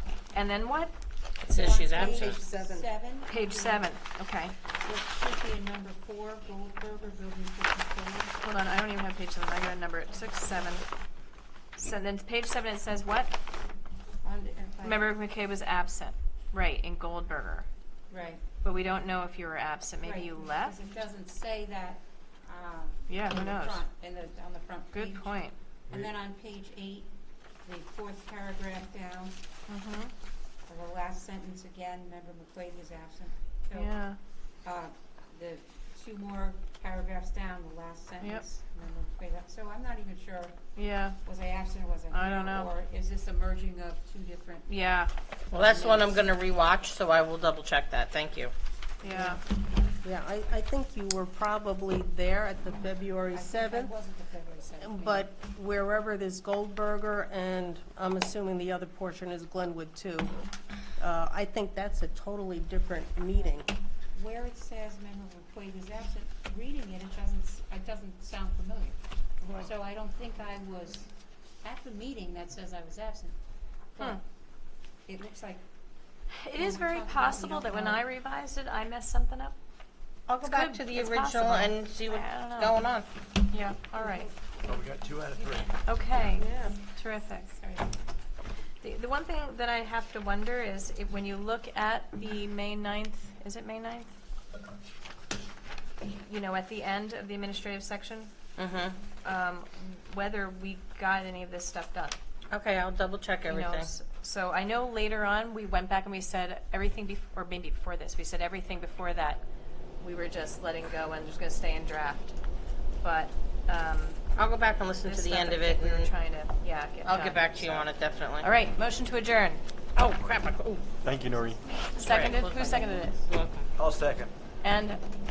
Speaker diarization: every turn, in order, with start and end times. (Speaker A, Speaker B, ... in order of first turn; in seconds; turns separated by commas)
Speaker A: 0.3-0.9, Speaker B: 1.4-2.4, Speaker C: 1.5-3.9, Speaker D: 2.0-2.9, Speaker A: 3.3-4.5, Speaker C: 4.8-8.4, Speaker A: 8.4-10.8, Speaker A: 11.8-13.3, Speaker C: 14.2-15.1, Speaker A: 14.8-17.7, Speaker C: 18.1-18.4, Speaker A: 18.6-20.8, Speaker C: 20.0-25.3, Speaker A: 23.1-23.8, Speaker A: 24.9-25.5, Speaker C: 25.9-27.1, Speaker C: 27.6-29.4, Speaker A: 29.7-30.1, Speaker C: 30.7-33.9, Speaker A: 33.7-34.2, Speaker C: 34.6-40.6, Speaker A: 40.8-41.2, Speaker C: 41.2-44.8, Speaker A: 42.1-42.7, Speaker A: 44.7-45.1, Speaker C: 45.5-46.2, Speaker B: 45.5-48.5, Speaker A: 49.0-49.4, Speaker C: 49.0-49.4, Speaker D: 50.0-53.9, Speaker C: 53.3-55.3, Speaker D: 54.8-60.3, Speaker D: 61.0-63.7, Speaker C: 64.2-69.0, Speaker C: 69.6-71.1, Speaker C: 71.6-73.4, Speaker C: 73.9-74.2, Speaker C: 75.1-75.6, Speaker A: 76.3-79.6, Speaker C: 76.6-78.1, Speaker B: 80.3-83.1, Speaker A: 80.4-82.8, Speaker A: 83.5-84.3, Speaker C: 83.9-84.3, Speaker E: 84.7-85.7, Speaker A: 85.8-87.5, Speaker C: 87.5-87.9, Speaker A: 88.8-94.1, Speaker A: 96.2-98.3, Speaker B: 98.6-99.0, Speaker A: 99.2-102.2, Speaker B: 102.5-103.9, Speaker A: 103.5-109.4, Speaker A: 110.0-112.4, Speaker A: 113.0-114.2, Speaker B: 114.4-116.1, Speaker A: 115.0-119.6, Speaker B: 117.0-118.5, Speaker B: 120.0-120.9, Speaker E: 121.0-121.6, Speaker C: 121.3-123.3, Speaker A: 122.0-123.2, Speaker B: 122.0-123.7, Speaker E: 123.8-124.3, Speaker A: 124.6-125.0